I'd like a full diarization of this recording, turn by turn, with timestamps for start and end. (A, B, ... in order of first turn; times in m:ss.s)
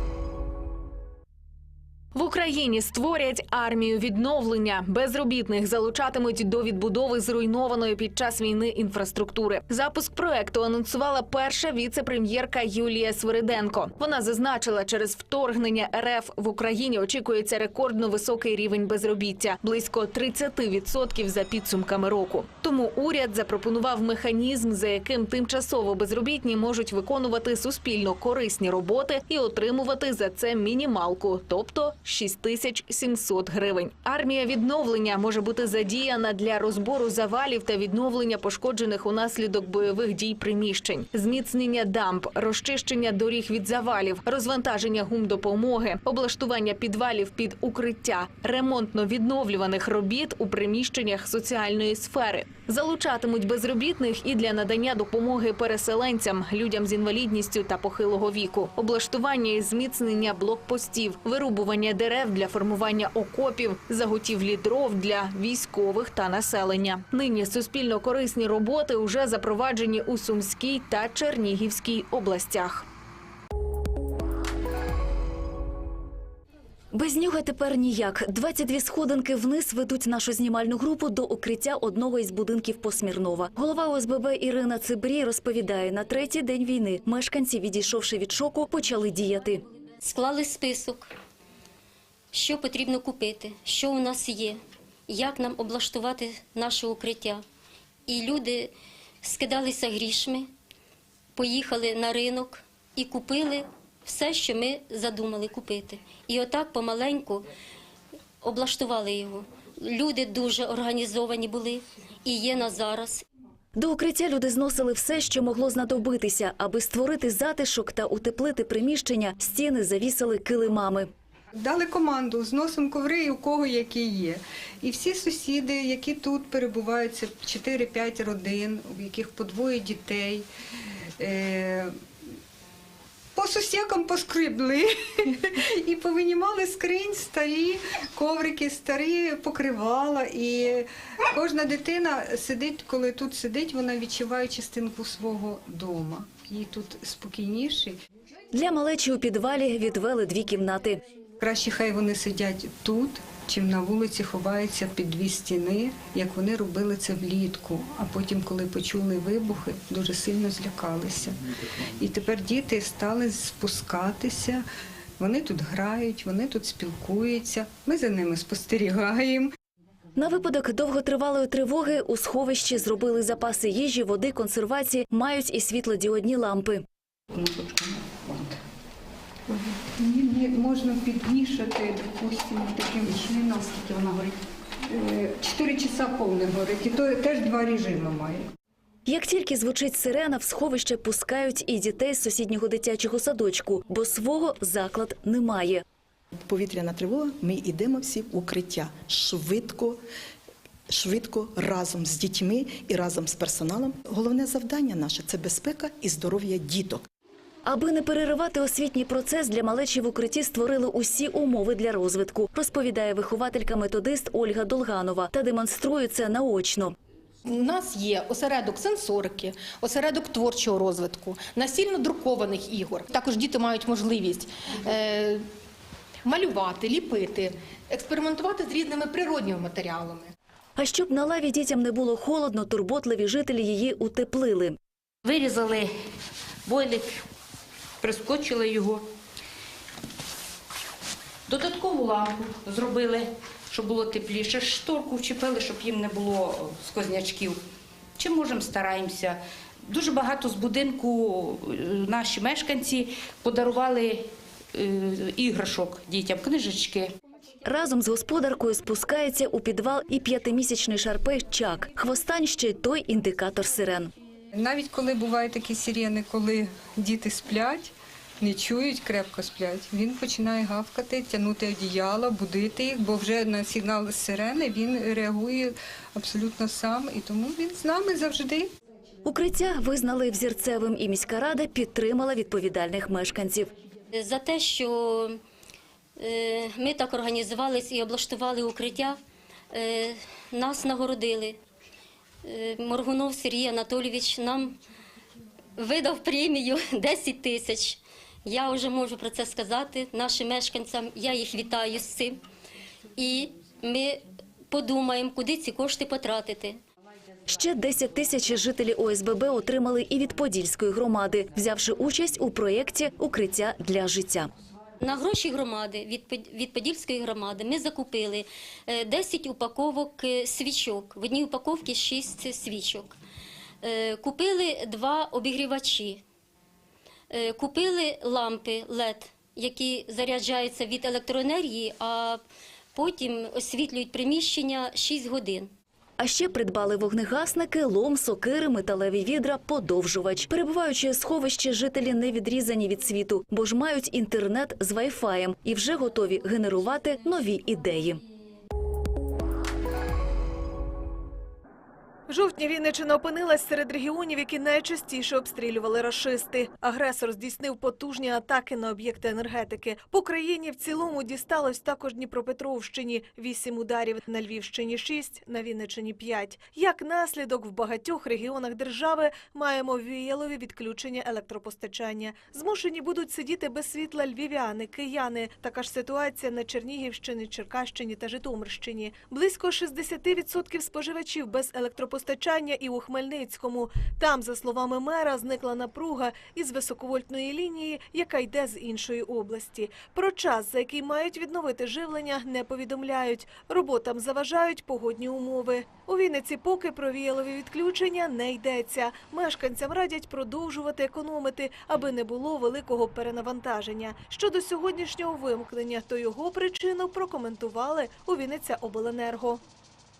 0:02.1-1:12.9 A
1:16.9-1:29.6 B
1:30.0-1:31.1 C
1:32.3-1:37.4 C
1:38.1-1:38.7 C
1:39.2-1:40.5 C
1:41.4-1:47.4 C
1:48.4-1:53.2 C
1:53.8-2:01.1 B
2:01.6-2:10.4 D
2:11.2-2:11.9 D
2:13.4-2:27.9 D
2:28.5-2:31.0 B
2:31.4-2:41.4 D
2:42.0-2:44.6 D
2:45.2-2:49.5 D
2:50.2-2:56.8 B
2:57.3-2:58.5 E
3:00.0-3:04.4 D
3:04.9-3:08.4 D
3:09.0-3:15.8 B
3:16.4-3:20.0 F
3:20.9-3:27.0 F
3:27.6-3:36.9 B
3:37.6-3:45.4 G
3:46.2-3:50.3 G
3:50.8-3:54.8 B
3:55.2-3:55.9 E
3:56.6-3:57.1 E
3:58.0-3:59.0 E
4:01.5-4:07.6 E
4:08.2-4:17.1 E
4:17.6-4:24.1 B
4:24.6-4:38.7 D
4:39.2-4:43.7 B
4:44.1-4:45.4 C
4:46.2-4:49.2 C
4:49.7-4:51.6 C
4:52.4-4:54.7 C
4:55.8-5:02.4 C
5:03.2-5:06.8 C
5:07.4-5:14.5 B
5:15.0-5:23.1 C
5:23.8-5:26.2 C
5:27.3-5:32.4 C
5:32.9-5:35.7 C
5:36.2-5:48.2 B
5:52.3-6:49.6 H